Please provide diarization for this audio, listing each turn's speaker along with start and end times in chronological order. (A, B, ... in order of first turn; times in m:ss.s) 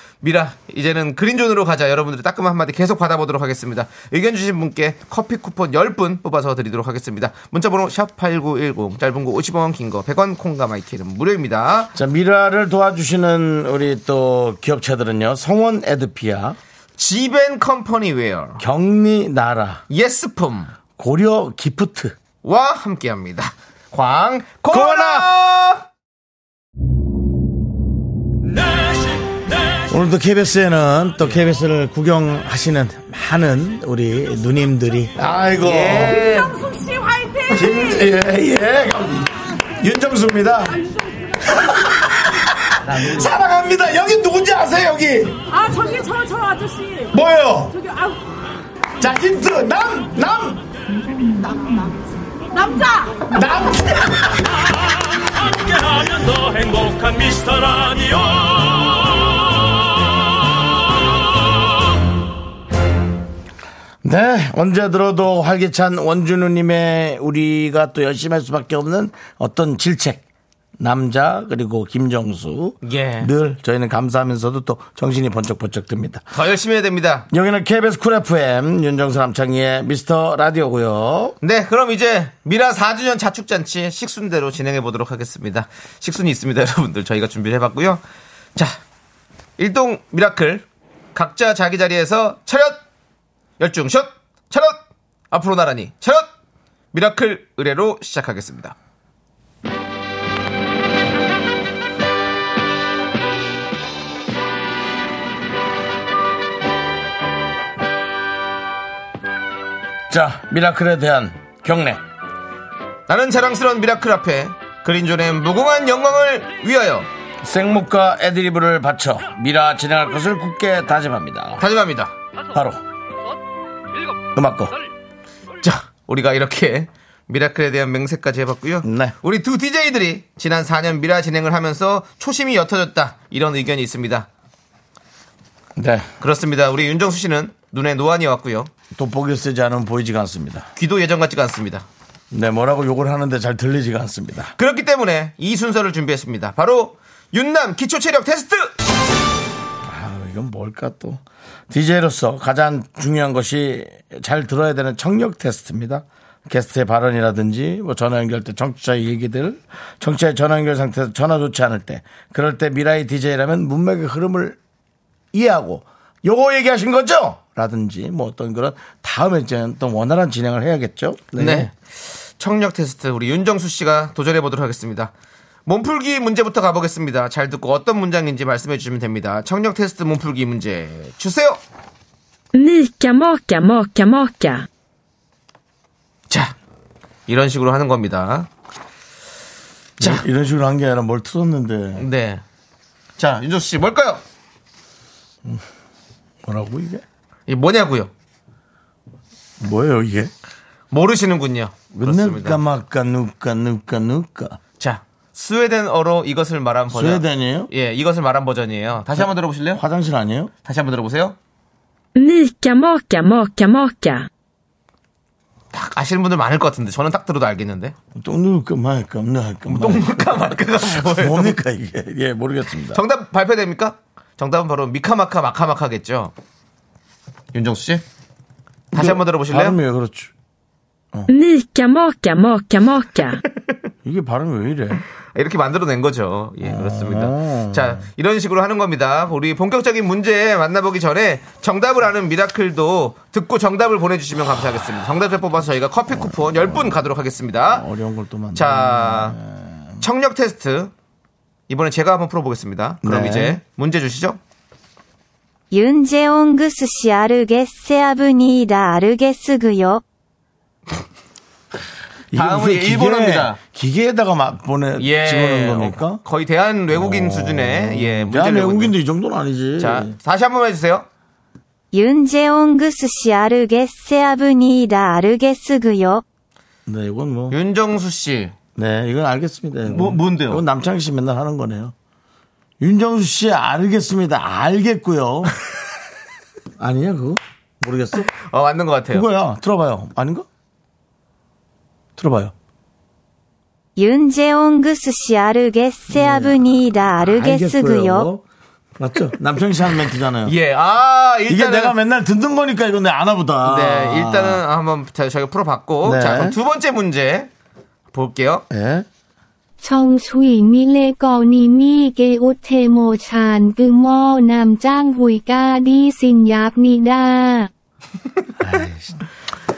0:00.2-0:11.9 A
0:11.9-0:16.6 B
0:17.0-0:18.6 A
0:18.6-0:19.8 B
0:19.9-0:20.7 A
0:21.0-0:22.2 B
0:22.4-0:25.8 A
0:24.7-0:25.3 B
0:28.4-0:29.9 C
0:29.9-0:36.2 B
0:35.6-0:36.6 A
0:36.2-0:38.1 D
0:37.5-0:40.7 B
0:40.7-0:41.8 D
0:41.5-0:45.4 B
0:42.8-0:43.3 A
0:45.5-0:47.1 D
0:47.1-0:47.8 B
0:47.7-0:48.2 D
0:49.0-0:50.6 B
0:51.3-0:52.0 D
0:52.5-0:53.3 D
0:53.3-0:54.5 B
0:54.5-0:59.5 C
1:04.0-1:10.2 B
1:10.8-1:16.2 B
1:12.8-1:13.3 A
1:16.3-1:17.3 A
1:17.3-1:21.4 B
1:21.4-1:28.0 A
1:29.6-1:30.6 A
1:31.1-1:32.8 A
1:33.6-1:34.8 A
1:35.3-1:36.3 A
1:36.9-1:38.7 A
1:50.1-1:52.0 B
1:53.1-1:57.1 A
1:57.4-2:01.6 B
2:01.6-2:02.1 A
2:02.5-2:02.8 B
2:04.3-2:04.7 B
2:05.6-2:14.3 A
2:08.8-2:09.1 B
2:15.8-2:16.1 B
2:16.2-2:18.7 A
2:18.9-2:20.7 B
2:20.8-2:21.8 A
2:22.3-2:24.5 B
2:24.6-2:28.7 A
2:29.8-2:44.6 B
2:45.3-2:51.7 B
2:51.4-2:55.1 A
2:55.6-3:01.6 A
3:02.5-3:04.6 E
3:07.3-3:08.5 A
3:10.0-3:10.2 A
3:10.0-3:12.1 B
3:12.0-3:12.4 A
3:13.2-3:14.2 A
3:16.4-3:17.0 B
3:17.5-3:18.1 A
3:19.6-3:20.3 B
3:20.9-3:22.6 A
3:21.9-3:24.6 B
3:24.8-3:29.8 A
3:26.9-3:27.7 B
3:29.2-3:30.5 B
3:30.6-3:31.4 A
3:32.1-3:34.3 E
3:35.7-3:37.9 A
3:38.1-3:43.0 B
3:39.7-3:41.6 A
3:42.9-3:46.3 A
3:47.5-3:48.0 A
3:48.9-3:50.3 B
3:48.9-3:49.8 A
3:51.3-3:53.4 E
3:54.0-3:55.0 B
3:55.3-4:07.8 A
3:56.6-3:58.0 B
4:06.2-4:07.0 B
4:07.6-4:10.0 B
4:08.5-4:09.4 A
4:10.0-4:10.9 A
4:11.7-4:14.4 A
4:13.0-4:13.6 B
4:15.7-4:20.0 F
4:22.3-4:26.2 B
4:22.3-4:23.6 A
4:25.0-4:28.9 A
4:26.9-4:30.1 B
4:29.8-4:31.1 A
4:31.9-4:36.2 F
4:36.8-4:37.6 B
4:37.5-4:38.5 A
4:38.8-4:41.9 B
4:39.9-4:40.6 A
4:42.8-4:45.5 B
4:46.8-4:48.3 B
4:48.3-4:49.3 A
4:49.1-4:50.5 B
4:52.2-4:52.5 B
4:54.0-4:58.2 F
4:56.1-4:56.6 B
4:57.2-4:58.4 B
4:59.0-5:00.6 B
5:00.4-5:01.9 A
5:01.5-5:04.6 B
5:03.6-5:07.5 A
5:06.0-5:06.5 B
5:08.1-5:08.6 A
5:08.7-5:09.0 B
5:09.8-5:17.7 G
5:18.6-5:19.2 B